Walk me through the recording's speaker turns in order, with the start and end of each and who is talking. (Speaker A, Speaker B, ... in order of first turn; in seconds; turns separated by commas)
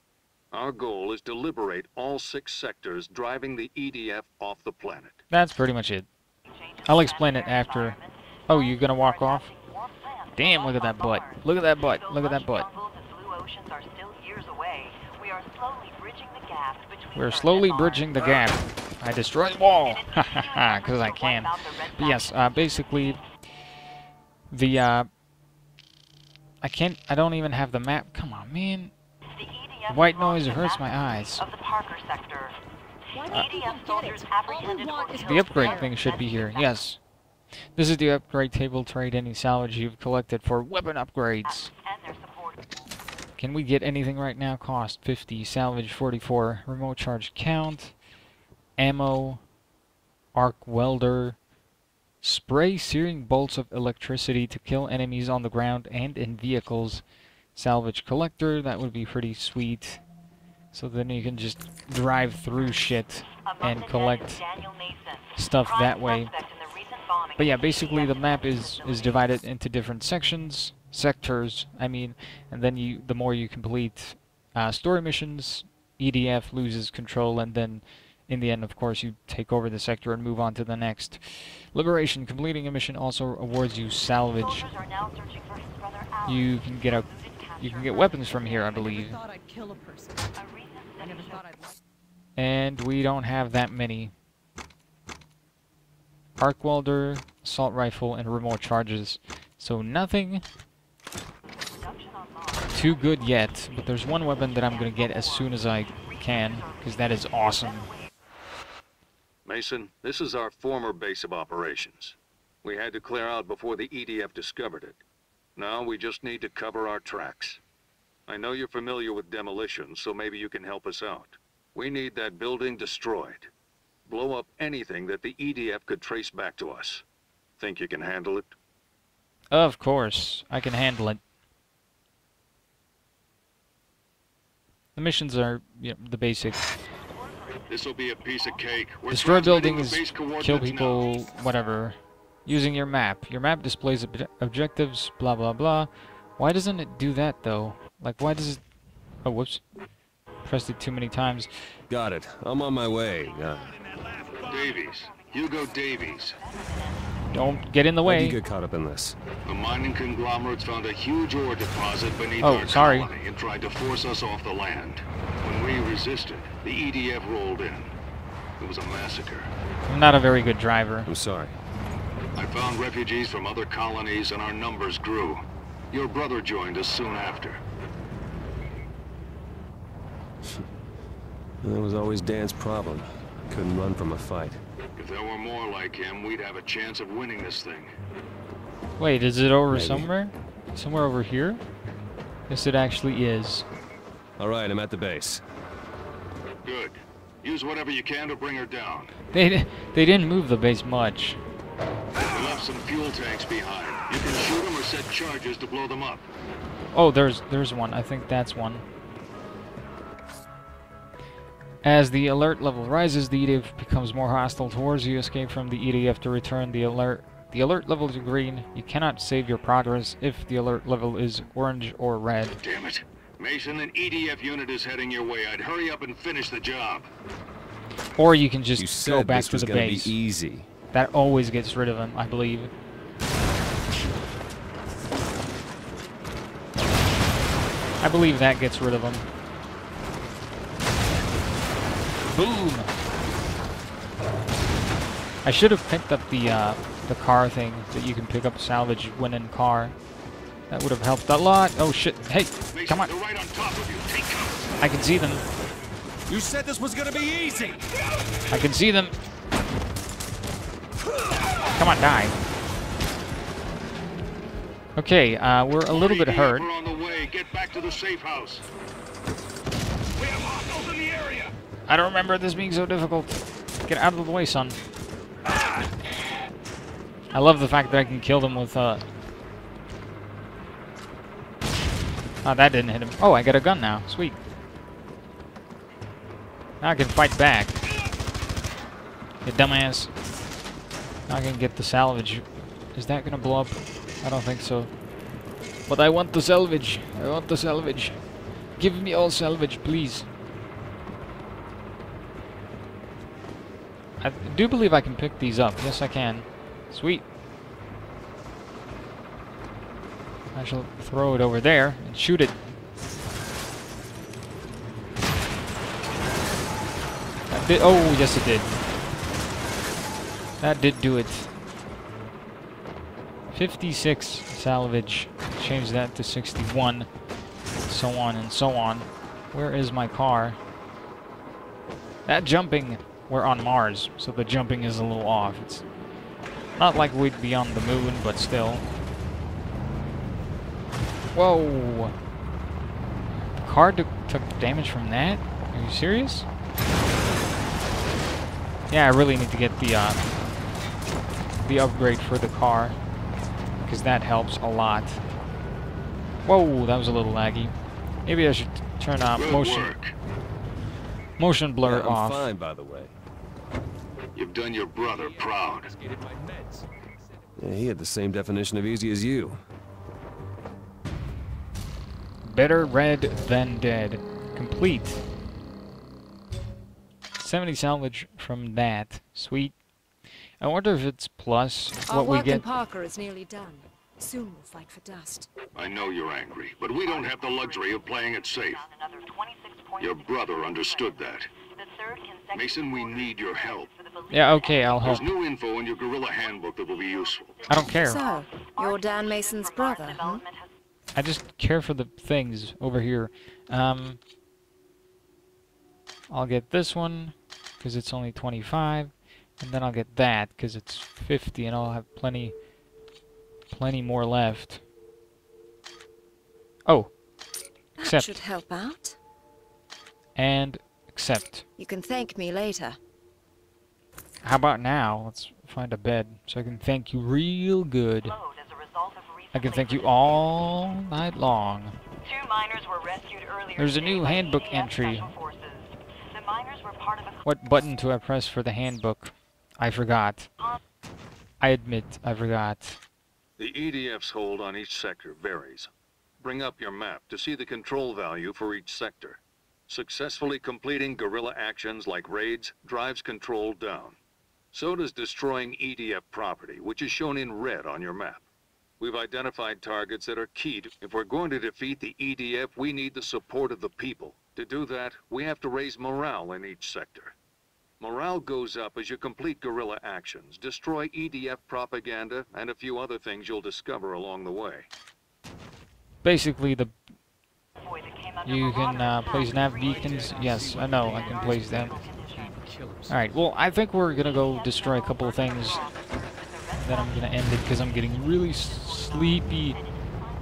Speaker A: 0.5-5.2, Speaker B: 5.3-6.1, Speaker C: 6.8-18.1, Speaker B: 6.8-8.0, Speaker B: 8.5-9.5, Speaker B: 10.3-12.7, Speaker B: 17.1-23.2, Speaker C: 19.9-22.3, Speaker B: 24.5-25.1, Speaker B: 26.6-28.9, Speaker C: 29.4-32.5, Speaker B: 29.9-31.4, Speaker D: 33.1-36.2, Speaker C: 33.3-36.0, Speaker B: 35.2-37.0, Speaker B: 37.7-41.7, Speaker C: 41.6-42.6, Speaker B: 43.4-47.9, Speaker B: 48.8-49.4, Speaker B: 50.3-51.4, Speaker B: 52.2-57.0, Speaker B: 57.5-60.0, Speaker B: 60.7-64.4, Speaker C: 63.5-69.0, Speaker B: 65.3-66.3, Speaker B: 67.4-84.7, Speaker C: 84.6-88.7, Speaker B: 86.2-89.2, Speaker D: 88.7-90.3, Speaker C: 90.4-91.4, Speaker D: 91.0-91.8, Speaker B: 92.3-94.1, Speaker B: 96.4-100.4, Speaker C: 101.8-102.8, Speaker B: 102.7-107.9, Speaker C: 104.7-105.6, Speaker C: 106.3-107.6, Speaker A: 109.5-115.0, Speaker A: 115.5-117.6, Speaker A: 118.3-123.5, Speaker A: 124.1-127.0, Speaker A: 127.6-128.5, Speaker B: 129.5-131.2, Speaker B: 134.9-136.7, Speaker A: 137.7-141.1, Speaker B: 139.1-148.6, Speaker B: 149.2-149.6, Speaker B: 150.4-151.5, Speaker E: 151.9-153.8, Speaker A: 154.4-156.4, Speaker B: 157.3-158.4, Speaker E: 158.0-159.2, Speaker A: 159.4-167.9, Speaker B: 162.4-163.1, Speaker A: 168.6-169.5, Speaker B: 169.8-171.1, Speaker E: 171.1-171.6, Speaker A: 172.3-177.6, Speaker E: 181.6-184.6, Speaker A: 185.0-187.9, Speaker B: 189.0-191.6, Speaker E: 189.7-190.1, Speaker B: 192.5-193.7, Speaker E: 194.4-195.4, Speaker A: 196.6-199.1, Speaker B: 199.3-201.4, Speaker A: 202.3-206.3, Speaker B: 206.9-208.8, Speaker B: 211.8-222.6, Speaker A: 222.6-227.1, Speaker B: 228.2-230.2, Speaker E: 228.8-230.7, Speaker B: 230.9-232.7, Speaker B: 238.0-239.3, Speaker B: 242.3-242.9, Speaker B: 245.4-249.9, Speaker B: 250.7-253.1, Speaker A: 252.7-254.7, Speaker B: 254.8-255.4, Speaker E: 256.3-257.8, Speaker B: 258.5-259.1, Speaker B: 261.8-262.3, Speaker B: 264.9-266.7, Speaker A: 265.9-268.6, Speaker A: 270.2-271.5, Speaker B: 271.9-274.8, Speaker B: 277.3-279.0, Speaker B: 282.4-284.4, Speaker B: 286.8-287.8, Speaker B: 289.4-290.1, Speaker B: 291.3-294.9, Speaker B: 295.9-298.2, Speaker B: 298.8-300.3, Speaker B: 304.2-307.2, Speaker B: 310.5-312.5, Speaker B: 317.5-318.7, Speaker B: 320.6-321.5, Speaker B: 323.5-327.1, Speaker B: 327.9-330.6, Speaker B: 332.2-335.8, Speaker B: 336.8-338.8, Speaker B: 341.3-342.1, Speaker B: 343.6-346.5, Speaker B: 348.9-350.3, Speaker B: 351.6-352.9, Speaker B: 353.9-355.2, Speaker B: 356.4-357.7, Speaker B: 358.2-359.9, Speaker A: 359.3-360.1, Speaker B: 361.4-362.5, Speaker E: 361.8-363.1, Speaker A: 364.4-365.9, Speaker E: 365.2-366.8, Speaker E: 367.6-369.6, Speaker B: 372.4-375.2, Speaker B: 377.4-379.7, Speaker B: 380.6-382.7, Speaker F: 382.1-385.5, Speaker A: 385.8-388.9, Speaker C: 387.1-388.1, Speaker C: 388.8-391.2, Speaker A: 390.0-391.5, Speaker C: 391.8-395.3, Speaker A: 392.5-393.9, Speaker B: 394.3-395.3, Speaker A: 395.0-397.6, Speaker C: 396.9-400.6, Speaker B: 397.7-398.2, Speaker F: 397.9-400.4, Speaker B: 401.1-404.2, Speaker B: 406.3-412.5, Speaker B: 413.7-414.8, Speaker B: 416.9-417.1, Speaker F: 418.0-419.2, Speaker B: 418.0-418.4, Speaker B: 420.4-421.6, Speaker F: 421.8-423.0, Speaker B: 424.4-428.4, Speaker C: 428.2-430.4, Speaker B: 429.5-432.0, Speaker C: 432.2-437.4, Speaker B: 433.8-435.3, Speaker B: 437.4-440.5, Speaker B: 441.6-443.0, Speaker A: 443.6-445.9, Speaker A: 446.4-454.2, Speaker A: 454.7-458.4, Speaker A: 459.0-467.4, Speaker A: 468.0-474.9, Speaker B: 476.2-476.9, Speaker C: 477.9-482.5, Speaker B: 478.4-481.9, Speaker E: 479.8-483.3, Speaker B: 483.1-485.9, Speaker C: 484.2-490.2, Speaker B: 486.8-489.8